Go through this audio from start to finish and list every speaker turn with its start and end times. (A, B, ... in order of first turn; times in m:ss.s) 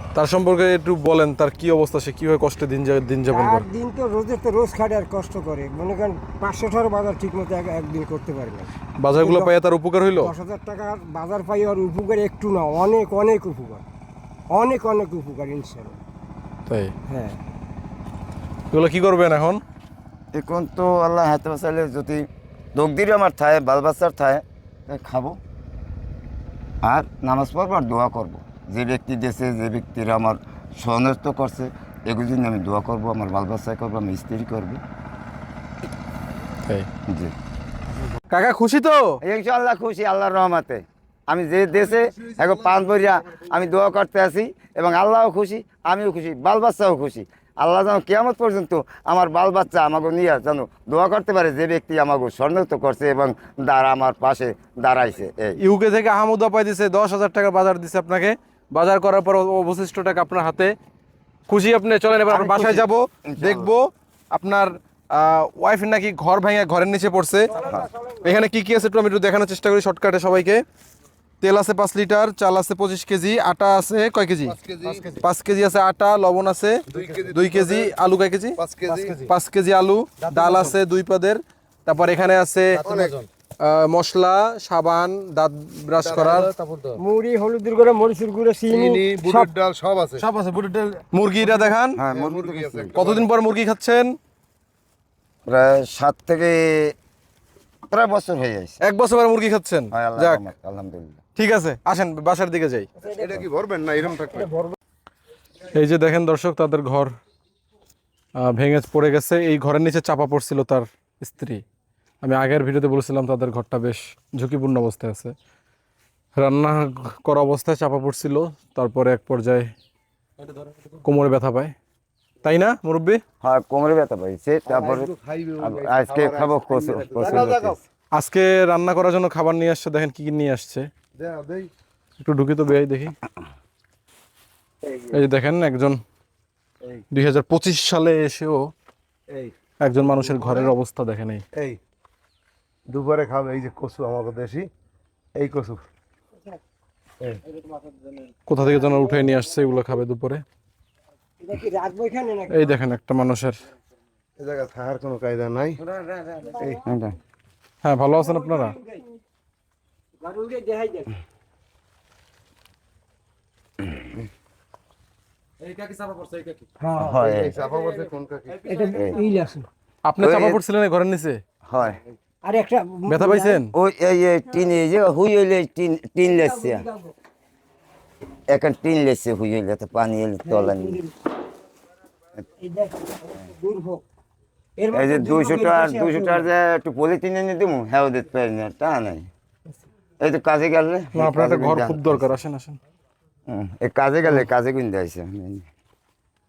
0:00.1-0:03.6 A
0:03.3-0:09.5 B
0:09.0-0:10.3 A
0:10.1-0:13.8 B
0:14.5-0:16.0 B
0:16.7-0:16.9 A
0:17.1-0:17.3 B
0:18.7-0:19.6 A
0:20.3-0:25.4 C
0:26.8-0:34.8 C
0:37.1-0:37.3 C
0:38.3-0:39.2 A
0:39.2-0:55.6 C
0:55.6-1:00.7 A
1:01.5-1:07.5 A
1:02.3-1:03.7 C
1:07.5-1:08.4 B
1:08.2-1:10.6 A
1:11.4-1:14.6 A
1:14.4-1:15.1 D
1:14.8-1:15.2 E
1:15.2-1:18.6 A
1:16.9-1:17.9 D
1:16.9-1:17.3 E
1:18.6-1:19.2 D
1:18.8-1:19.3 E
1:19.2-1:22.8 A
1:20.3-1:20.8 E
1:22.7-1:23.3 E
1:22.8-1:23.1 D
1:23.6-1:26.5 A
1:26.0-1:26.4 D
1:26.1-1:27.0 E
1:27.0-1:29.5 B
1:28.7-1:30.2 D
1:30.2-1:32.0 A
1:32.0-1:33.0 C
1:32.1-1:33.2 D
1:32.9-1:34.1 A
1:35.4-1:36.9 C
1:37.9-1:38.8 C
1:38.8-1:40.4 A
1:39.9-1:41.2 C
1:41.4-1:42.9 A
1:43.0-1:43.4 B
1:43.0-1:44.5 D
1:44.1-1:44.7 B
1:45.7-1:47.1 A
1:48.4-1:51.6 A
1:52.2-1:55.3 A
1:56.4-1:59.7 A
2:00.4-2:00.9 E
2:01.0-2:01.7 A
2:02.4-2:03.2 A
2:03.4-2:07.8 C
2:04.7-2:07.8 D
2:08.1-2:10.9 A
2:11.2-2:11.7 D
2:12.2-2:13.1 A
2:15.0-2:16.0 A
2:17.1-2:18.7 A
2:19.8-2:21.4 A
2:20.3-2:20.7 D
2:21.5-2:21.8 D
2:22.9-2:24.7 D
2:25.3-2:25.8 D
2:28.4-2:30.4 A
2:28.9-2:29.4 B
2:31.4-2:32.8 B
2:32.5-2:33.6 A
2:34.4-2:35.8 D
2:36.0-2:37.1 C
2:36.2-2:36.8 B
2:37.8-2:38.7 A
2:38.2-2:39.2 B
2:40.2-2:41.2 B
2:45.6-2:46.6 E
2:46.8-2:47.2 B
2:47.0-2:47.6 C
2:47.2-2:48.7 D
2:48.6-2:49.7 B
2:48.9-2:49.2 C
2:50.0-2:51.4 A
2:50.2-2:50.6 C
2:51.6-2:52.0 C
2:52.4-2:53.6 B
2:53.1-2:53.7 A
2:53.7-2:56.8 C
2:56.3-2:57.1 B
2:58.5-3:01.0 C
3:00.4-3:01.1 B
3:02.6-3:04.0 B
3:04.8-3:06.4 B
3:04.9-3:09.3 C
3:10.2-3:12.3 C
3:11.1-3:12.8 A
3:13.5-3:15.6 C